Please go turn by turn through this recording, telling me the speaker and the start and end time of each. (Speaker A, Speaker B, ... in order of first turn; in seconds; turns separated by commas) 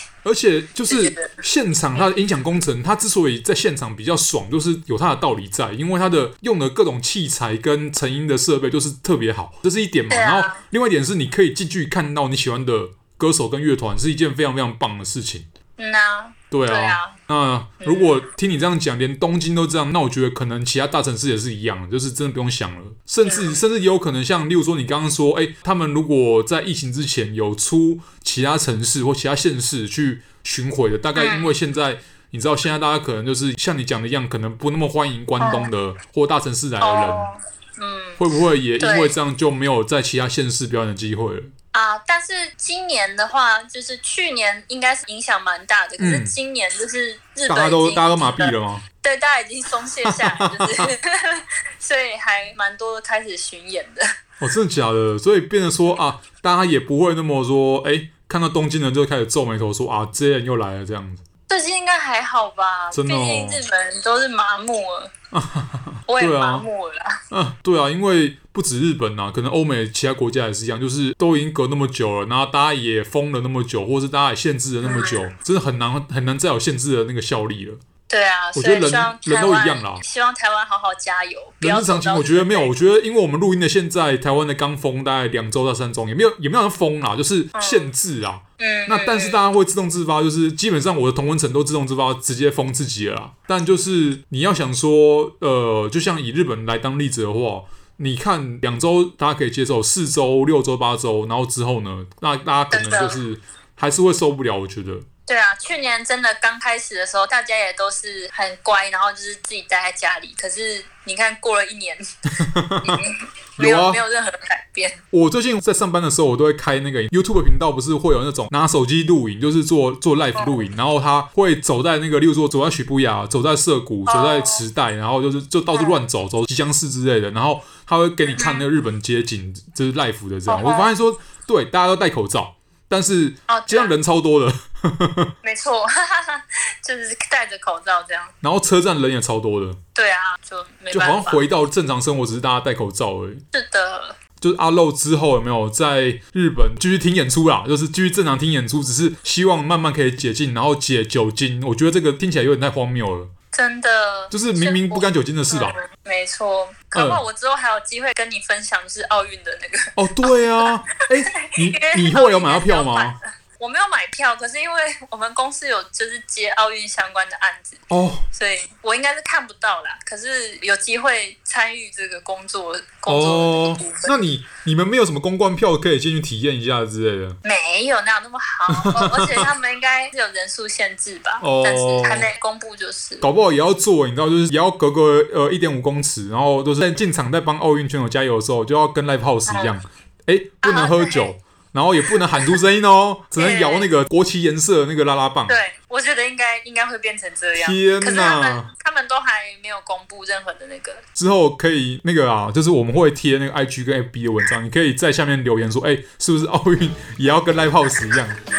Speaker A: 0.2-15.5, Speaker B: 0.9-1.4, Speaker B: 1.9-2.2, Speaker B: 10.1-10.6, Speaker B: 15.8-17.2, Speaker A: 16.5-37.3, Speaker B: 17.8-18.2, Speaker B: 23.2-23.6, Speaker B: 31.1-31.5, Speaker B: 35.4-35.7, Speaker B: 36.8-38.2, Speaker A: 38.2-41.5, Speaker B: 38.8-39.1, Speaker B: 41.7-54.0, Speaker A: 46.0-46.3, Speaker A: 47.5-48.8, Speaker A: 50.0-50.9, Speaker A: 54.4-61.2, Speaker B: 61.5-65.1, Speaker A: 62.9-63.6, Speaker A: 65.3-66.7, Speaker B: 66.1-67.2, Speaker A: 67.3-77.8, Speaker B: 74.8-75.3, Speaker B: 78.1-82.7, Speaker A: 78.5-80.0, Speaker A: 81.6-105.0, Speaker B: 87.5-87.9, Speaker B: 88.6-89.4, Speaker B: 102.7-103.2, Speaker B: 105.3-112.0, Speaker A: 112.4-113.0, Speaker B: 112.8-115.0, Speaker A: 113.6-114.0, Speaker A: 115.1-135.3, Speaker B: 120.3-120.7, Speaker B: 124.0-124.6, Speaker B: 125.7-126.0, Speaker B: 128.3-128.6, Speaker B: 130.5-130.9, Speaker B: 133.5-133.9, Speaker B: 135.4-138.3, Speaker A: 138.4-139.8, Speaker B: 139.9-141.4, Speaker A: 140.9-143.4, Speaker B: 143.5-144.2, Speaker A: 144.4-153.3, Speaker B: 153.5-160.7, Speaker A: 154.3-155.8, Speaker A: 156.9-157.2, Speaker A: 159.9-163.2, Speaker B: 161.3-174.1, Speaker A: 167.9-168.3, Speaker A: 173.1-177.4, Speaker B: 177.4-183.2, Speaker A: 178.7-179.5, Speaker A: 181.4-182.3, Speaker A: 183.2-195.6, Speaker B: 189.5-189.8, Speaker B: 190.6-191.3, Speaker B: 192.1-192.6, Speaker B: 193.3-193.9, Speaker B: 195.5-201.0, Speaker A: 197.6-198.7, Speaker A: 201.2-208.4